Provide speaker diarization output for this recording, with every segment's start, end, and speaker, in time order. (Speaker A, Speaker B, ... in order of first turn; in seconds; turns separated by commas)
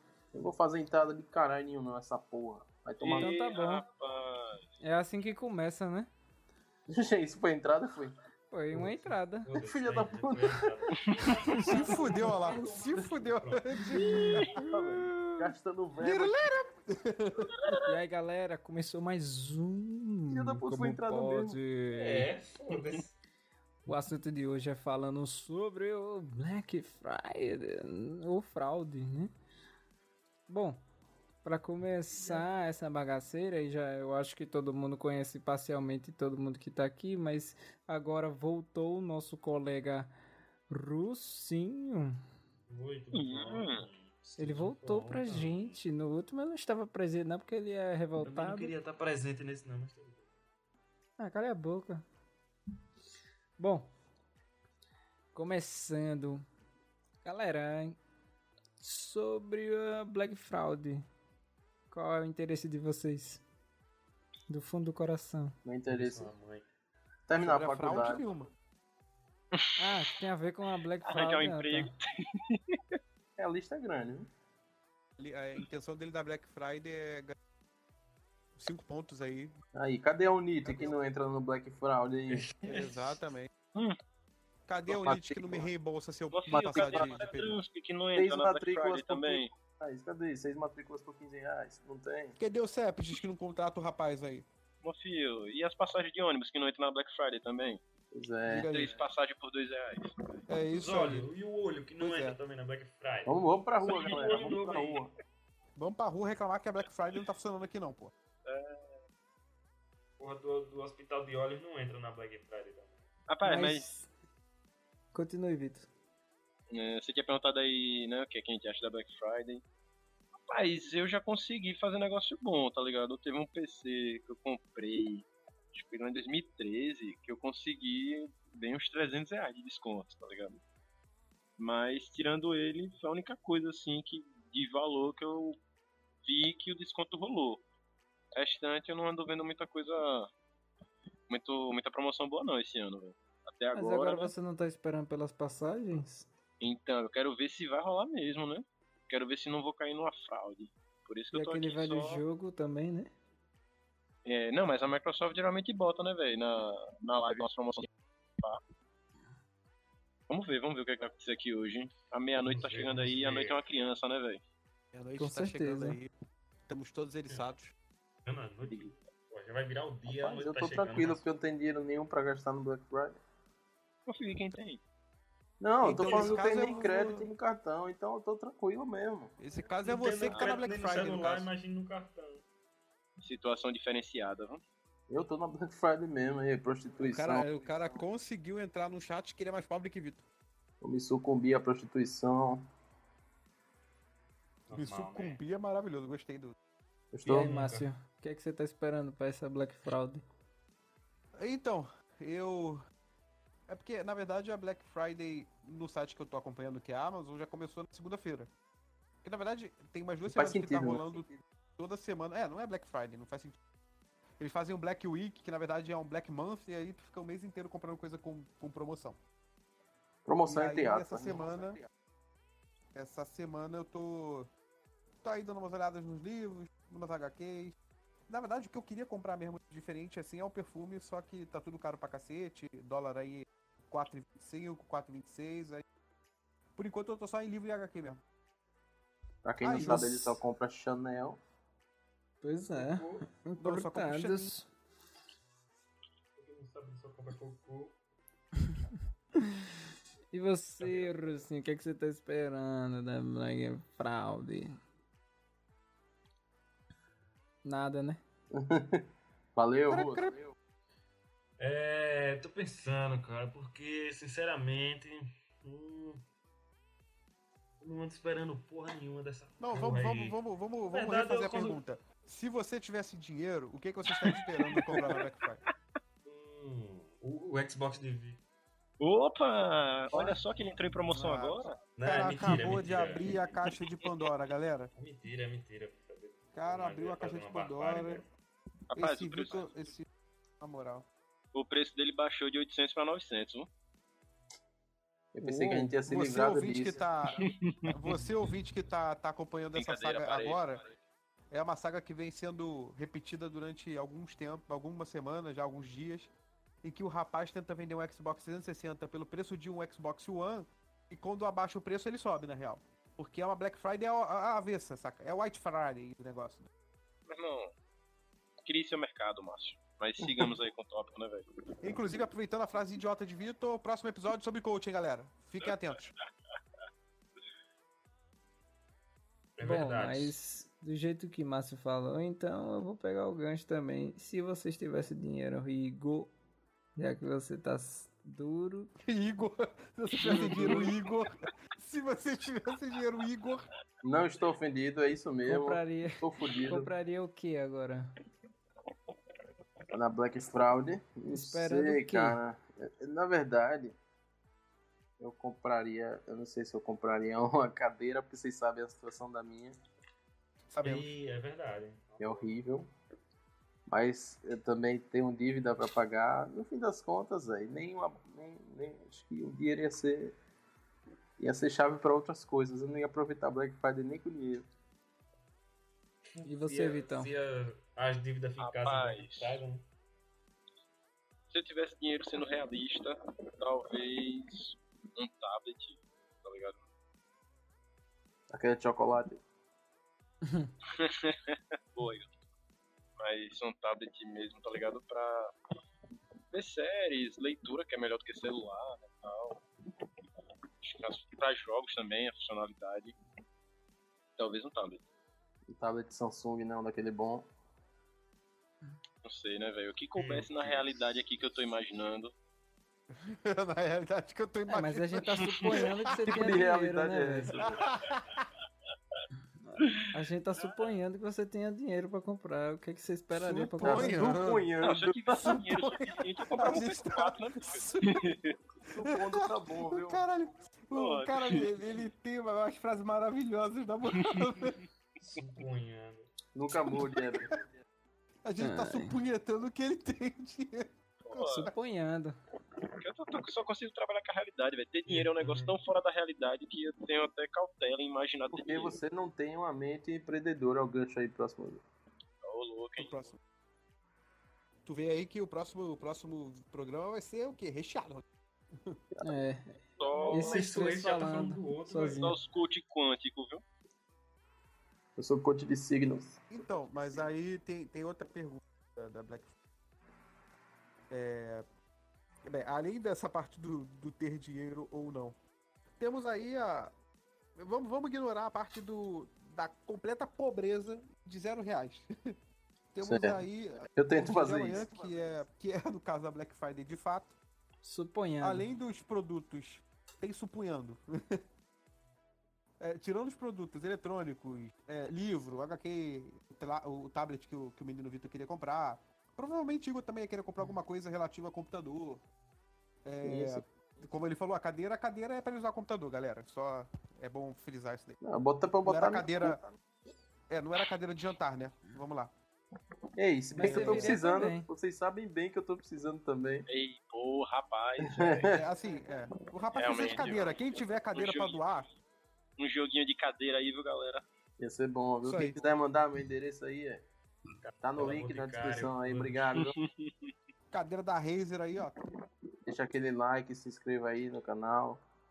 Speaker A: 0.3-3.4, Speaker B: 3.0-4.7, Speaker C: 3.1-3.9, Speaker C: 4.8-6.1, Speaker A: 6.9-8.2, Speaker C: 8.5-9.5, Speaker D: 8.7-13.8, Speaker A: 9.6-11.1, Speaker E: 11.6-14.6, Speaker A: 11.6-13.0, Speaker C: 14.0-15.5, Speaker A: 14.5-16.4, Speaker E: 16.0-17.5, Speaker C: 17.9-22.3, Speaker A: 20.3-21.6, Speaker D: 21.9-23.1, Speaker C: 23.9-29.3, Speaker C: 30.5-30.8, Speaker C: 31.4-40.1, Speaker D: 32.1-32.5, Speaker C: 40.7-42.2, Speaker D: 42.7-45.8, Speaker B: 43.1-43.9, Speaker C: 44.4-48.7, Speaker D: 48.2-50.2, Speaker C: 51.2-52.0, Speaker C: 53.6-53.9, Speaker C: 55.3-56.4, Speaker C: 57.2-58.0, Speaker C: 58.8-61.1, Speaker C: 61.9-63.4, Speaker C: 64.5-65.6, Speaker A: 65.7-66.3, Speaker D: 65.9-66.7, Speaker A: 67.3-68.2, Speaker E: 67.4-68.5, Speaker B: 69.5-69.9, Speaker C: 69.8-71.9, Speaker B: 71.0-72.8, Speaker A: 73.4-74.3, Speaker E: 75.2-77.3, Speaker E: 78.6-79.5, Speaker A: 79.7-82.5, Speaker E: 80.6-81.0, Speaker D: 82.3-83.2, Speaker E: 82.6-83.5, Speaker E: 84.7-87.6, Speaker A: 84.9-85.7, Speaker B: 86.3-89.5, Speaker A: 86.5-87.1, Speaker A: 88.2-92.4, Speaker E: 92.4-94.5, Speaker B: 94.8-97.8, Speaker A: 98.1-98.7, Speaker E: 98.5-99.0, Speaker B: 98.7-100.1, Speaker E: 100.5-101.3, Speaker D: 100.8-105.1, Speaker E: 102.0-102.4, Speaker A: 103.3-105.1, Speaker E: 105.8-108.1, Speaker B: 108.5-109.0, Speaker D: 110.2-113.0, Speaker B: 113.3-113.9, Speaker C: 113.4-114.1, Speaker C: 115.1-115.9, Speaker B: 116.7-119.6, Speaker B: 120.5-130.6, Speaker B: 131.6-135.6, Speaker B: 136.2-137.6, Speaker B: 138.3-140.3, Speaker B: 141.3-144.3, Speaker C: 143.7-146.3, Speaker B: 146.6-152.2, Speaker C: 151.3-153.1, Speaker B: 154.2-157.9, Speaker B: 160.3-164.4, Speaker D: 162.4-163.6, Speaker E: 164.9-166.1, Speaker C: 165.2-166.0, Speaker E: 166.7-167.7, Speaker D: 168.2-171.2, Speaker A: 170.1-173.2, Speaker B: 174.1-174.8, Speaker A: 175.6-179.4, Speaker E: 175.8-177.3, Speaker B: 175.9-176.9, Speaker E: 179.4-181.5, Speaker D: 179.8-182.4, Speaker B: 180.3-180.6, Speaker B: 183.2-184.6, Speaker A: 185.1-187.6, Speaker E: 187.0-190.2, Speaker A: 190.8-192.7, Speaker D: 194.7-195.4, Speaker E: 194.7-196.6, Speaker A: 197.1-197.5, Speaker C: 197.3-200.2, Speaker D: 197.3-197.9, Speaker E: 201.4-202.8, Speaker E: 203.7-208.5, Speaker E: 209.2-213.6, Speaker A: 210.3-211.0, Speaker E: 214.4-219.2, Speaker A: 220.3-221.6, Speaker E: 220.5-221.8, Speaker E: 222.9-224.5, Speaker E: 225.2-227.8, Speaker E: 228.3-235.8, Speaker E: 236.8-238.2, Speaker A: 239.4-241.4, Speaker E: 239.6-240.3, Speaker C: 239.8-240.3, Speaker C: 242.4-244.7, Speaker D: 242.8-243.3, Speaker E: 243.6-244.5, Speaker D: 246.4-247.9, Speaker C: 250.3-254.8, Speaker D: 250.8-251.4, Speaker C: 257.6-258.2, Speaker A: 258.5-260.4, Speaker E: 259.9-260.5, Speaker D: 261.6-266.2, Speaker D: 267.8-270.4, Speaker E: 269.6-275.6, Speaker D: 270.9-271.8, Speaker B: 274.1-275.3, Speaker D: 276.2-278.4, Speaker B: 279.0-281.8, Speaker D: 280.8-283.5, Speaker E: 282.1-284.9, Speaker D: 285.0-288.3, Speaker E: 286.5-288.2, Speaker B: 288.9-289.7, Speaker E: 289.0-290.1, Speaker E: 290.6-291.1, Speaker B: 291.5-293.7, Speaker A: 295.4-297.0, Speaker E: 295.5-300.8, Speaker B: 297.4-297.9, Speaker B: 299.8-300.9, Speaker E: 301.5-306.3, Speaker E: 306.8-316.7, Speaker B: 317.3-317.7, Speaker B: 318.6-321.6, Speaker A: 320.2-320.5, Speaker E: 321.8-326.1, Speaker D: 329.6-330.4, Speaker C: 329.6-336.3, Speaker C: 337.0-338.9, Speaker E: 339.0-343.7, Speaker A: 340.3-340.9, Speaker B: 340.6-340.9, Speaker A: 344.0-346.9, Speaker C: 345.4-348.1, Speaker A: 349.9-354.0, Speaker C: 351.3-352.4, Speaker A: 355.2-359.8, Speaker E: 360.7-361.1, Speaker D: 360.8-362.5, Speaker A: 362.2-362.9, Speaker A: 363.9-370.4, Speaker A: 371.4-374.7, Speaker D: 376.4-379.9, Speaker C: 376.4-377.3, Speaker B: 378.6-379.6, Speaker B: 381.5-386.8, Speaker A: 388.5-389.4, Speaker B: 390.9-392.3, Speaker B: 393.2-395.5, Speaker B: 396.5-399.6, Speaker B: 400.8-403.2, Speaker B: 404.4-405.0, Speaker A: 405.7-407.5, Speaker B: 409.2-412.3, Speaker D: 410.2-411.0, Speaker E: 413.2-416.5, Speaker C: 414.7-417.6, Speaker A: 416.3-417.9, Speaker E: 417.8-418.5, Speaker C: 419.6-424.3, Speaker E: 423.3-424.7, Speaker A: 423.8-425.6, Speaker B: 424.8-428.6, Speaker E: 425.4-428.3, Speaker A: 428.9-430.2, Speaker E: 429.0-434.8, Speaker B: 430.9-431.7, Speaker D: 435.2-436.3, Speaker A: 436.5-437.6, Speaker E: 438.4-441.7, Speaker C: 438.6-439.1, Speaker B: 441.2-441.7, Speaker C: 441.5-442.4, Speaker B: 443.0-449.0, Speaker D: 445.1-445.8, Speaker A: 448.5-451.8, Speaker B: 452.4-453.2, Speaker E: 453.0-453.4, Speaker E: 454.9-458.3, Speaker C: 459.2-459.8, Speaker B: 460.0-460.6, Speaker D: 460.1-462.4, Speaker C: 460.3-462.3, Speaker B: 462.1-463.6, Speaker A: 465.2-466.5, Speaker E: 466.5-469.5, Speaker E: 471.1-471.6, Speaker E: 472.5-475.4, Speaker E: 476.0-476.9, Speaker E: 477.6-482.3, Speaker E: 482.9-487.4, Speaker A: 483.0-483.4, Speaker A: 483.9-484.8, Speaker C: 487.8-488.7, Speaker E: 488.4-491.4, Speaker E: 492.8-502.2, Speaker E: 503.1-508.2, Speaker A: 503.2-503.6, Speaker A: 508.2-509.7, Speaker E: 508.8-509.6, Speaker E: 510.5-512.3, Speaker A: 513.2-516.7, Speaker C: 513.6-514.7, Speaker E: 513.6-514.2, Speaker B: 516.7-518.6, Speaker A: 518.0-518.6, Speaker E: 518.5-521.9, Speaker B: 519.7-521.6, Speaker B: 522.6-524.2, Speaker A: 524.6-527.0, Speaker E: 525.2-525.6, Speaker D: 527.6-529.5, Speaker A: 527.8-529.8, Speaker B: 529.8-530.3, Speaker E: 530.7-531.9, Speaker A: 532.7-535.0